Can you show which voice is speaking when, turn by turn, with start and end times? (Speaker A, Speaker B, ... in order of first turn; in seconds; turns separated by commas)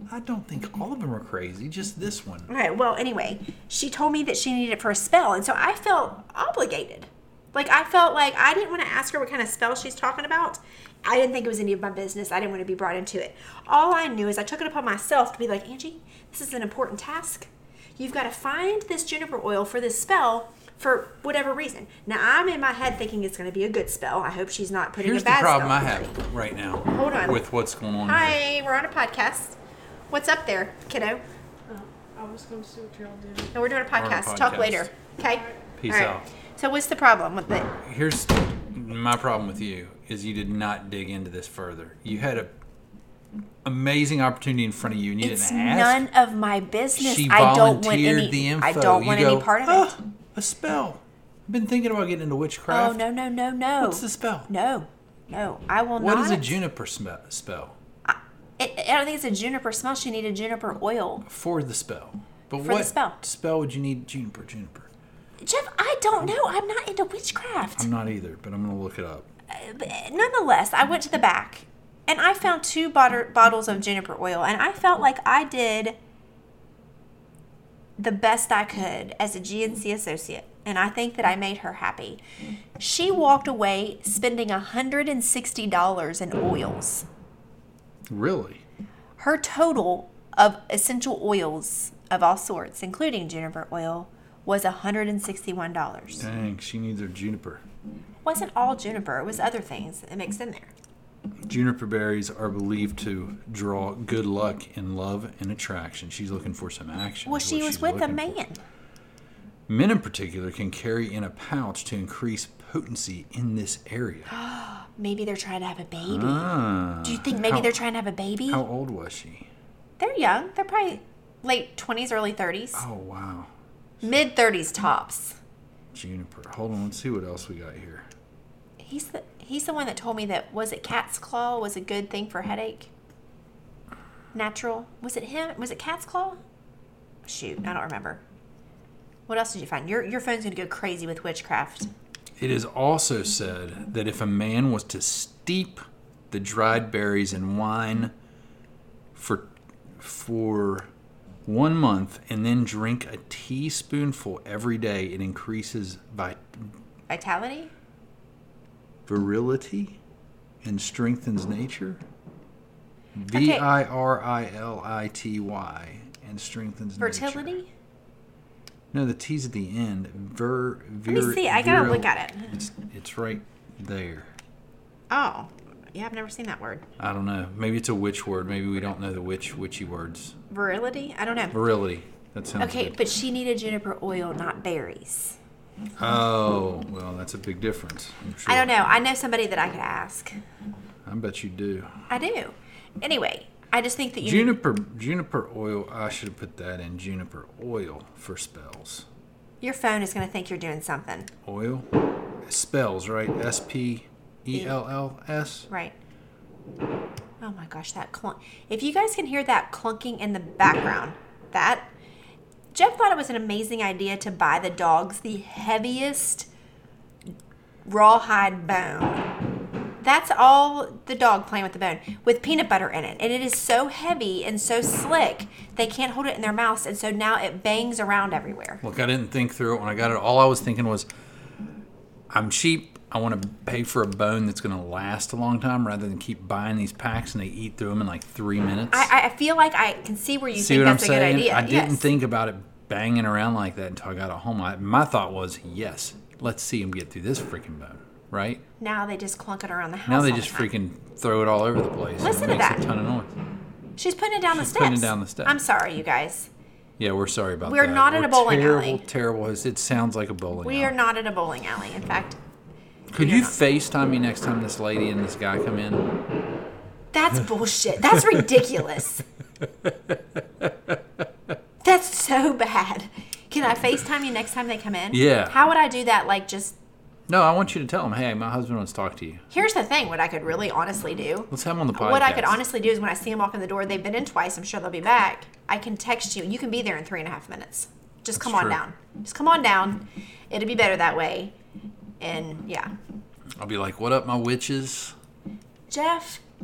Speaker A: 0.1-2.5, Speaker B: 2.5-26.2, Speaker A: 25.0-28.4, Speaker B: 26.9-27.4, Speaker B: 28.1-29.6, Speaker B: 30.1-31.2, Speaker C: 31.7-33.6, Speaker B: 33.5-37.7, Speaker A: 33.9-34.9, Speaker C: 35.3-35.6, Speaker A: 35.8-36.2, Speaker A: 37.8-42.5, Speaker A: 43.6-46.1, Speaker B: 45.2-50.0, Speaker A: 47.0-53.0, Speaker B: 52.7-56.6, Speaker A: 53.8-54.5, Speaker A: 56.0-57.8, Speaker B: 58.0-61.2, Speaker A: 61.3-64.9, Speaker B: 62.6-63.2, Speaker B: 65.4-67.9, Speaker A: 67.8-69.3, Speaker B: 69.5-76.0, Speaker B: 78.0-82.2, Speaker B: 82.8-87.1, Speaker A: 88.1-88.6, Speaker B: 89.2-96.2, Speaker A: 96.2-97.6, Speaker B: 98.2-100.7, Speaker A: 101.5-108.4, Speaker B: 107.3-108.6, Speaker A: 109.7-114.3, Speaker B: 114.3-118.6, Speaker A: 116.0-117.8, Speaker A: 118.5-119.5, Speaker B: 120.0-122.8, Speaker A: 122.7-123.5, Speaker B: 124.0-125.4, Speaker A: 125.9-128.1, Speaker B: 128.8-132.9, Speaker B: 134.3-136.4, Speaker B: 137.2-138.2, Speaker B: 139.3-141.9, Speaker A: 142.4-148.1, Speaker A: 149.2-150.9, Speaker A: 151.5-156.7, Speaker B: 157.1-157.7, Speaker A: 159.1-160.0, Speaker A: 160.6-162.0, Speaker A: 163.2-167.6, Speaker B: 163.3-163.7, Speaker B: 167.0-167.7, Speaker A: 168.9-174.3, Speaker B: 171.1-172.6, Speaker B: 175.1-176.9, Speaker A: 177.0-180.4, Speaker B: 180.5-181.6, Speaker A: 181.5-183.0, Speaker B: 182.6-185.4, Speaker A: 186.0-188.7, Speaker B: 188.5-190.3, Speaker A: 191.1-192.1, Speaker B: 192.1-194.6, Speaker A: 194.2-199.1, Speaker B: 199.6-201.3, Speaker A: 201.4-201.9, Speaker A: 202.5-205.7, Speaker B: 205.7-205.9, Speaker B: 207.4-211.9, Speaker B: 212.7-216.5, Speaker B: 217.8-219.3, Speaker B: 220.0-228.8, Speaker A: 228.8-231.1, Speaker A: 232.3-239.1, Speaker B: 238.9-242.1, Speaker A: 240.5-248.6, Speaker B: 248.8-250.7, Speaker A: 250.1-253.3, Speaker B: 252.2-252.9, Speaker B: 254.0-256.5, Speaker A: 254.5-255.6, Speaker A: 257.0-260.9, Speaker B: 257.6-259.0, Speaker B: 260.6-262.4, Speaker A: 263.1-266.1, Speaker B: 263.2-263.6, Speaker B: 267.1-269.2, Speaker A: 269.8-271.0, Speaker B: 271.8-276.8, Speaker A: 275.1-275.6, Speaker A: 277.3-279.4, Speaker B: 279.5-291.5, Speaker A: 281.5-282.6, Speaker A: 288.4-288.8, Speaker B: 292.2-292.9, Speaker A: 293.6-295.1, Speaker B: 295.9-296.4